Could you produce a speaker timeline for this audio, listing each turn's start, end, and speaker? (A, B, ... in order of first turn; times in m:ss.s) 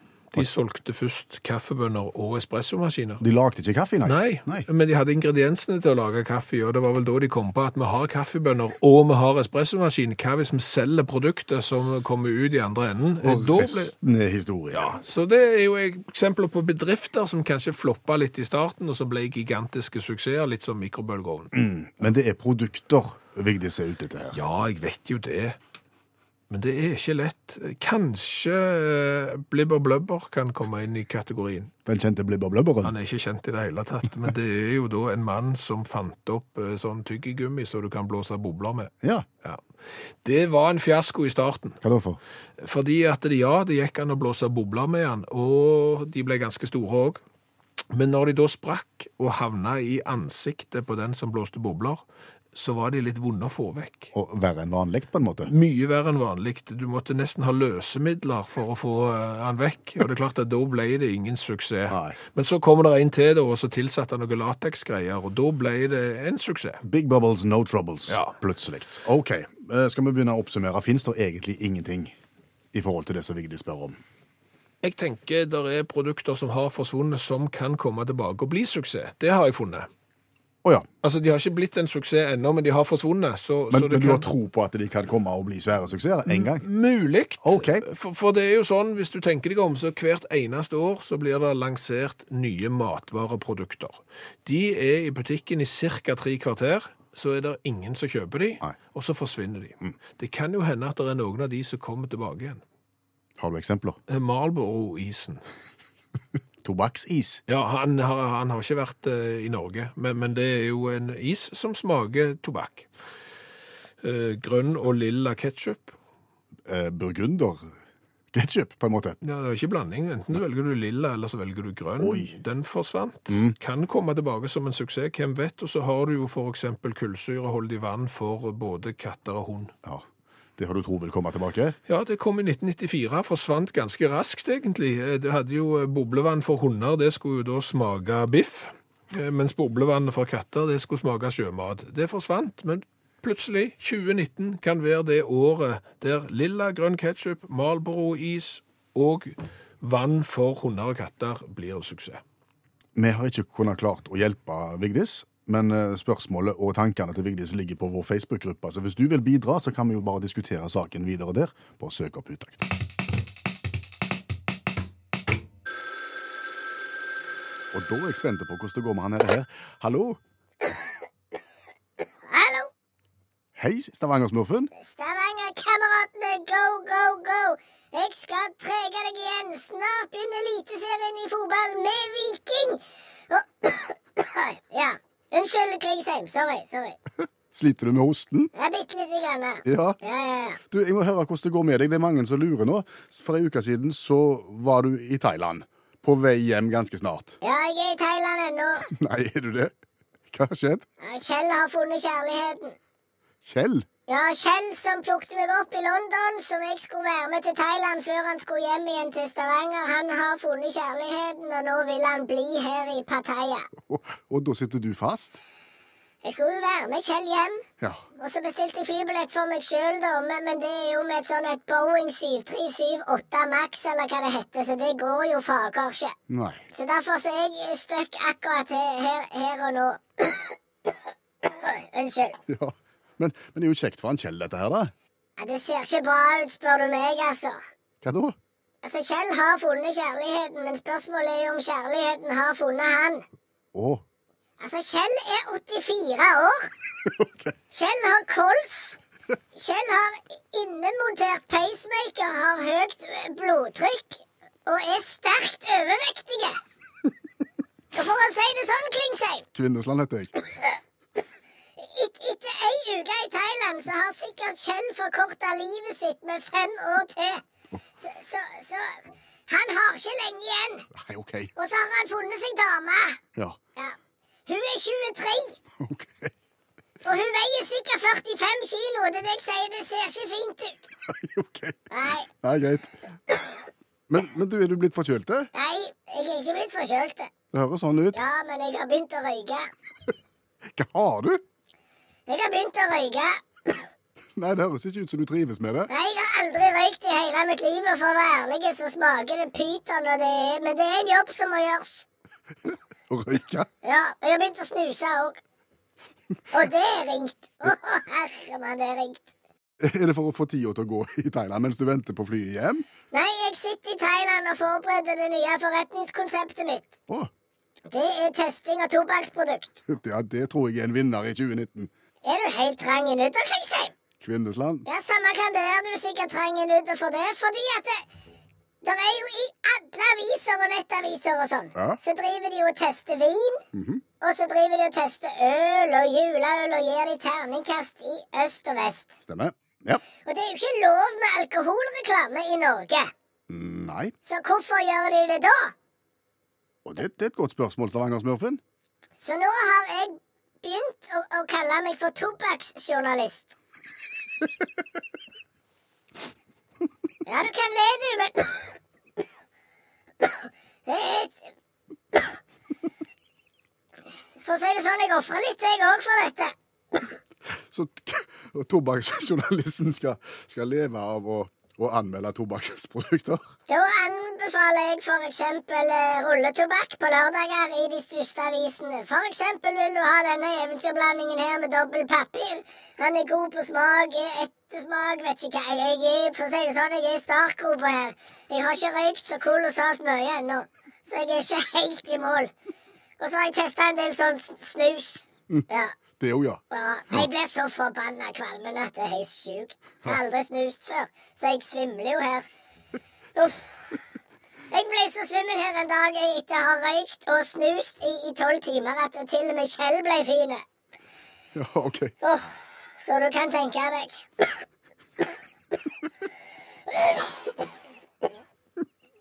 0:00.3-0:03.2 A
0:03.2-0:04.6 B
0:04.0-0:13.9 A
0:13.2-0:15.0 B
0:14.7-0:21.5 A
0:21.5-0:24.4 B
0:24.3-0:25.6 A
0:26.5-0:31.7 A
0:31.8-0:32.9 B
0:32.8-0:38.9 A
0:40.2-0:41.8 A
0:41.8-0:42.2 B
0:42.6-0:47.2 A
0:47.9-0:52.0 A
0:52.5-0:54.1 A
0:54.1-0:55.5 B
0:55.5-1:06.8 A
1:01.9-1:02.2 B
1:06.8-1:12.1 B
1:08.1-1:08.4 A
1:12.7-1:14.0 B
1:14.8-1:19.9 A
1:21.0-1:24.3 A
1:23.7-1:26.6 B
1:26.3-1:42.6 A
1:27.4-1:27.8 B
1:43.4-1:44.0 B
1:44.1-1:45.4 A
1:46.6-1:47.4 B
1:47.5-1:52.9 A
1:54.0-1:55.9 A
1:56.7-1:57.7 B
1:58.3-1:59.2 B
1:59.2-2:09.7 A
2:02.0-2:02.4 B
2:03.3-2:03.6 B
2:10.6-2:11.8 B
2:11.9-2:32.2 A
2:32.9-2:42.7 B
2:47.7-2:50.2 B
2:52.3-2:52.7 C
2:53.6-2:54.7 B
2:54.7-3:07.0 C
3:07.5-3:08.5 B
3:08.5-3:10.6 C
3:09.6-3:10.0 B
3:10.7-3:17.4 B
3:17.4-3:18.9 C
3:18.9-3:19.7 B
3:20.3-3:20.8 B
3:21.0-3:22.8 C
3:23.4-3:23.8 B
3:24.1-3:33.7 C
3:33.8-3:35.4 B
3:36.2-3:37.6 C
3:38.2-3:46.1 C
3:46.3-3:46.7 B
3:46.7-3:50.6 C
3:51.4-3:52.4 C
3:52.5-3:54.9 B
3:55.4-3:57.6 C
3:58.0-3:58.4 B
3:58.8-4:03.2 C
4:03.7-4:04.0 B
4:04.6-4:06.7 C
4:07.0-4:07.5 B
4:07.7-4:09.0 C
4:09.5-4:16.6 C
4:17.9-4:19.5 C
4:19.5-4:20.3 B
4:21.8-4:27.4 C
4:28.0-4:30.9 C
4:30.9-4:31.5 B
4:31.6-4:33.2 C
4:34.5-4:35.6 C
4:35.8-4:36.3 B
4:37.0-4:40.8 C
4:41.1-4:42.9 B
4:41.9-4:42.3 C
4:44.1-4:45.5 B
4:45.5-4:47.3 C
4:47.5-4:48.2 B
4:48.1-4:49.7 C
4:50.7-4:51.4 B
4:52.3-4:53.8 C
4:54.3-4:55.9 B
4:55.9-5:02.0 C
5:03.1-5:03.7 B
5:03.8-5:05.4 C
5:06.5-5:09.2 C
5:09.8-5:12.8 B
5:13.1-5:16.9 C
5:17.9-5:19.8 C
5:19.9-5:21.9 B
5:22.2-5:23.9 C
5:24.2-5:24.8 B
5:24.8-5:28.0 C
5:28.8-5:33.6 C
5:33.7-5:34.0 B
5:34.2-5:39.2 C
5:39.2-5:40.0 B
5:40.2-5:43.1 C
5:43.5-5:44.1 B
5:44.2-5:45.7 C
5:46.8-5:48.6 B
5:49.2-5:53.6 C
5:57.2-5:58.8 C
6:00.2-6:01.5 C
6:04.4-6:06.5 C
6:07.7-6:13.5 B
6:13.7-6:32.5 C
6:33.2-6:35.9 C
6:36.2-6:36.6 B
6:36.7-6:42.5 C
6:43.4-6:43.6 C
6:44.7-6:50.6 C
6:51.5-6:52.1 B
6:52.2-6:52.5 C
6:53.0-6:54.4 C
6:56.9-6:57.6 C